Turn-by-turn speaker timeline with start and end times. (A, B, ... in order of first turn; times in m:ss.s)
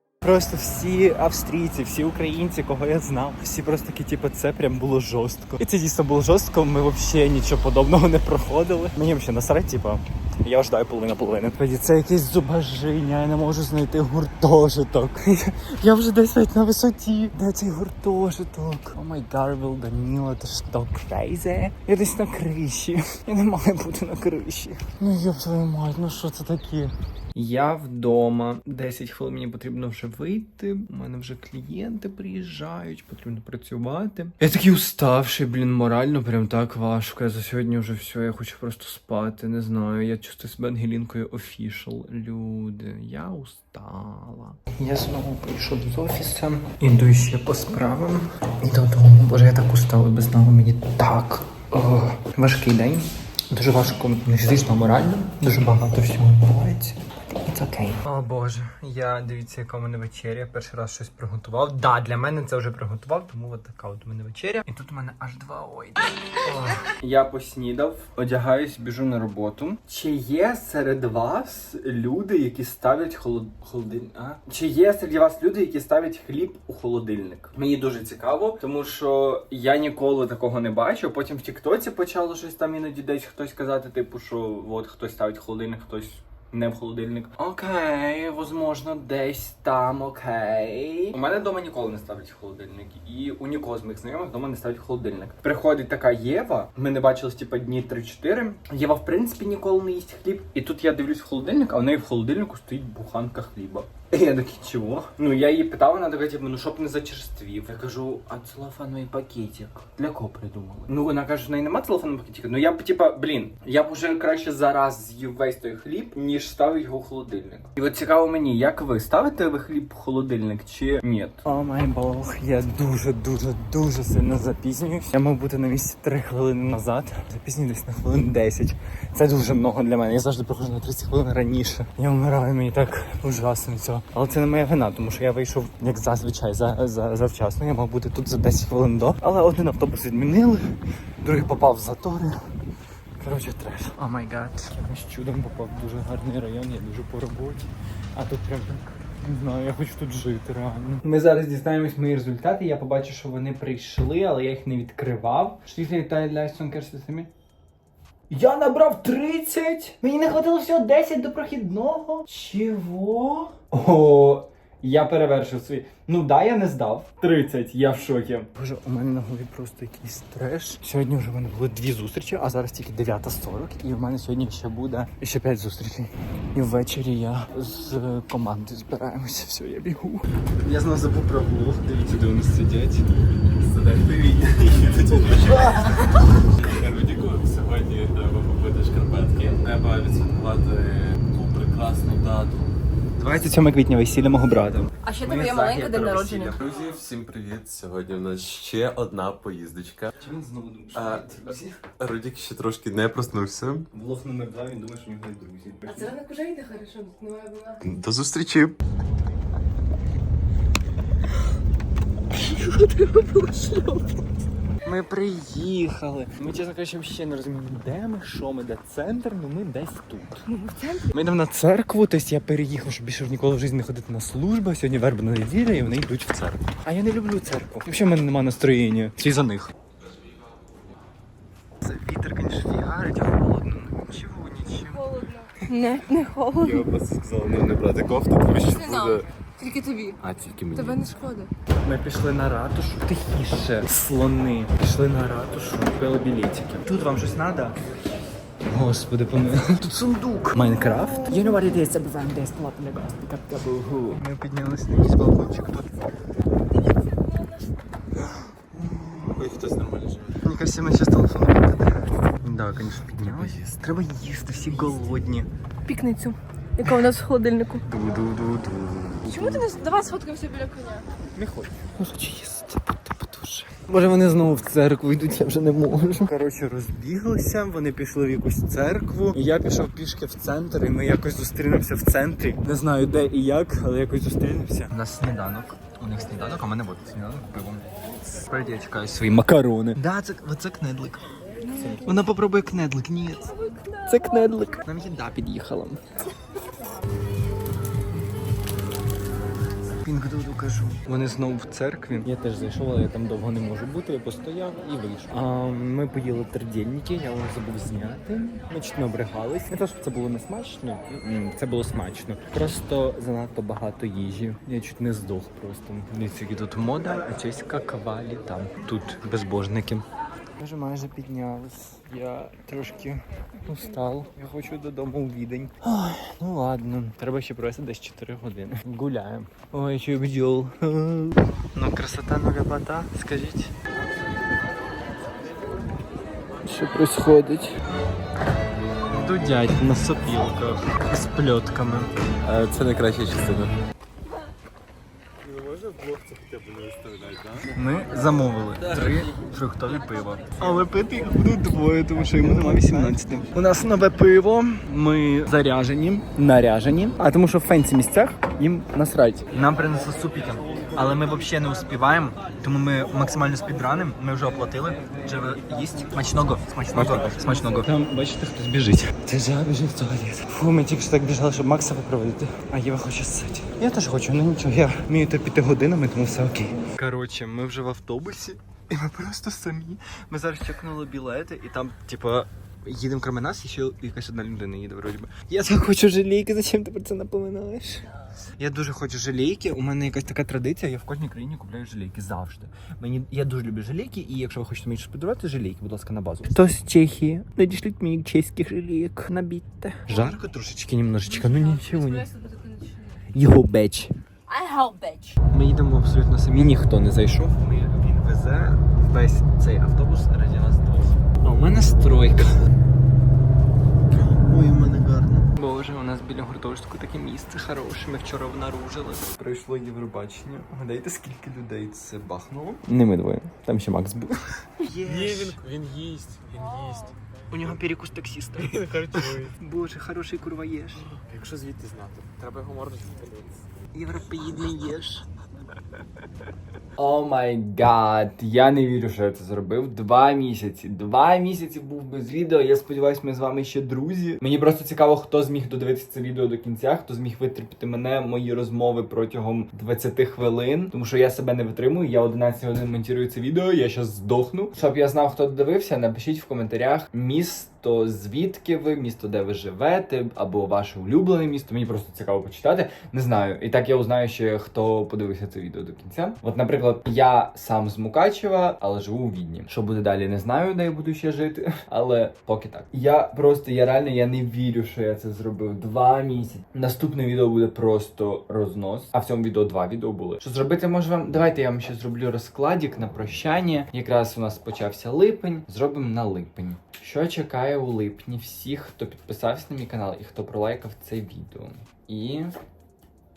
0:00.2-2:22.4 A
2:23.2-2:37.3 A
2:38.3-3:03.0 A
3:03.6-3:05.8 B
3:04.6-3:06.2 A
3:06.5-3:12.7 B
3:13.2-3:16.6 A
3:15.0-3:16.6 C
3:16.6-3:20.1 B
3:20.2-3:21.8 A
3:20.9-3:21.3 B
3:22.0-3:23.9 B
3:23.9-3:26.2 A
3:25.9-3:27.8 C
3:27.8-3:28.8 B
3:32.4-3:34.1 C
3:34.8-3:40.5 A
3:40.5-3:41.1 C
3:41.1-3:49.7 A
3:51.8-3:55.1 A
3:55.0-3:56.9 C
3:56.6-3:59.1 A
3:57.0-3:59.2 B
3:58.6-4:00.2 C
4:00.2-4:01.1 A
4:00.7-4:01.5 C
4:01.8-4:07.8 A
4:08.7-4:16.0 A
4:18.2-4:19.5 A
4:19.3-4:20.4 B
4:20.4-4:25.5 A
4:23.3-4:23.8 B
4:25.8-4:27.8 C
4:27.8-4:29.9 A
4:29.3-4:31.1 C
4:31.4-4:56.0 A
4:51.7-4:52.0 C
5:00.0-5:20.0 A
5:20.6-5:33.7 A
5:36.6-5:37.8 A
5:39.1-5:43.7 A
5:42.5-5:42.8 B
5:45.4-5:47.8 B
5:47.7-6:28.1 A
5:48.9-5:49.3 B
6:28.6-6:42.3 A
6:41.3-6:43.2 C
6:43.3-6:44.1 A
6:44.5-6:45.4 C
6:45.5-6:52.6 A
6:54.1-7:05.6 A
7:05.0-7:07.7 B
7:07.5-7:11.1 A
7:08.6-7:09.5 B
7:11.1-7:13.6 B
7:13.9-7:15.2 A
7:17.0-8:12.6 A